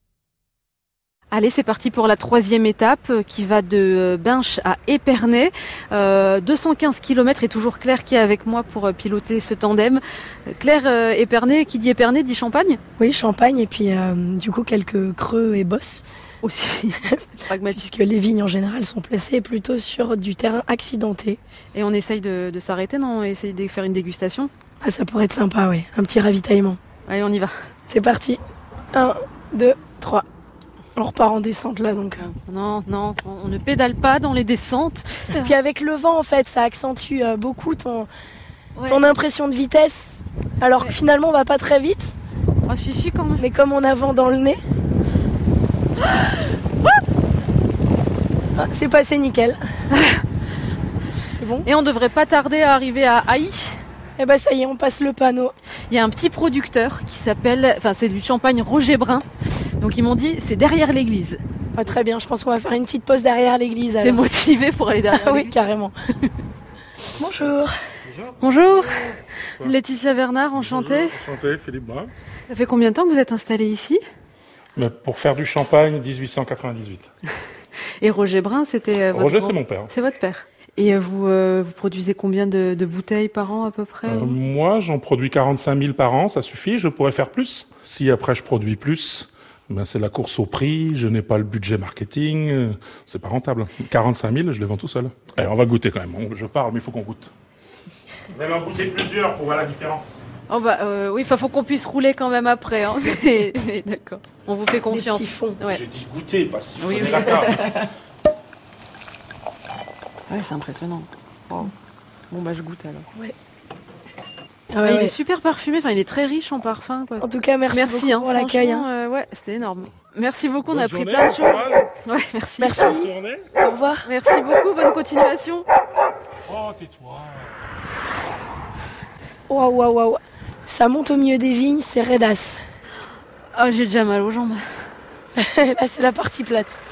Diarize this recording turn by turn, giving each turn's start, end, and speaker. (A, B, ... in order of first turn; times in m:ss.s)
0:01.3-0:12.8 A
0:13.0-0:16.0 B
0:16.4-0:17.8 A
0:17.1-0:21.4 B
0:21.7-0:24.5 A
0:24.8-0:26.8 B
0:27.1-0:27.5 A
0:27.9-0:28.4 B
0:28.9-0:30.2 B
0:31.0-0:32.3 B
0:32.3-0:35.5 A
0:35.3-0:38.1 B
0:38.8-0:39.1 A
0:38.9-0:42.2 B
0:42.7-0:43.4 A
0:43.4-0:44.6 B
0:46.0-0:46.5 A
0:48.6-0:49.6 B
0:49.9-0:50.2 A
0:51.3-0:51.7 B
0:51.6-0:53.8 A
0:54.2-0:55.5 B
0:55.9-0:59.3 A
0:59.8-1:01.4 A
1:01.7-1:04.2 B
1:04.0-1:05.6 A
1:05.1-1:05.9 B
1:07.2-1:07.8 B
1:07.2-1:09.8 C
1:08.4-1:11.2 A
1:10.6-1:12.1 C
1:12.5-1:14.0 A
1:14.8-1:17.1 C
1:18.0-1:24.4 A
1:19.1-1:19.9 C
1:24.1-1:37.3 C
1:38.3-1:40.2 C
1:40.5-1:45.8 A
1:44.9-1:45.6 B
1:45.7-1:47.9 C
1:46.8-1:47.8 A
1:50.3-1:51.7 A
1:52.3-1:53.1 A
1:54.7-1:55.2 B
1:54.8-2:02.9 A
1:57.2-1:58.9 B
2:00.7-2:01.9 C
2:02.6-2:04.1 B
2:02.8-2:03.5 C
2:04.1-2:05.6 A
2:06.5-2:07.6 C
2:09.5-2:12.6 B
2:13.6-2:14.6 A
2:15.4-2:16.8 B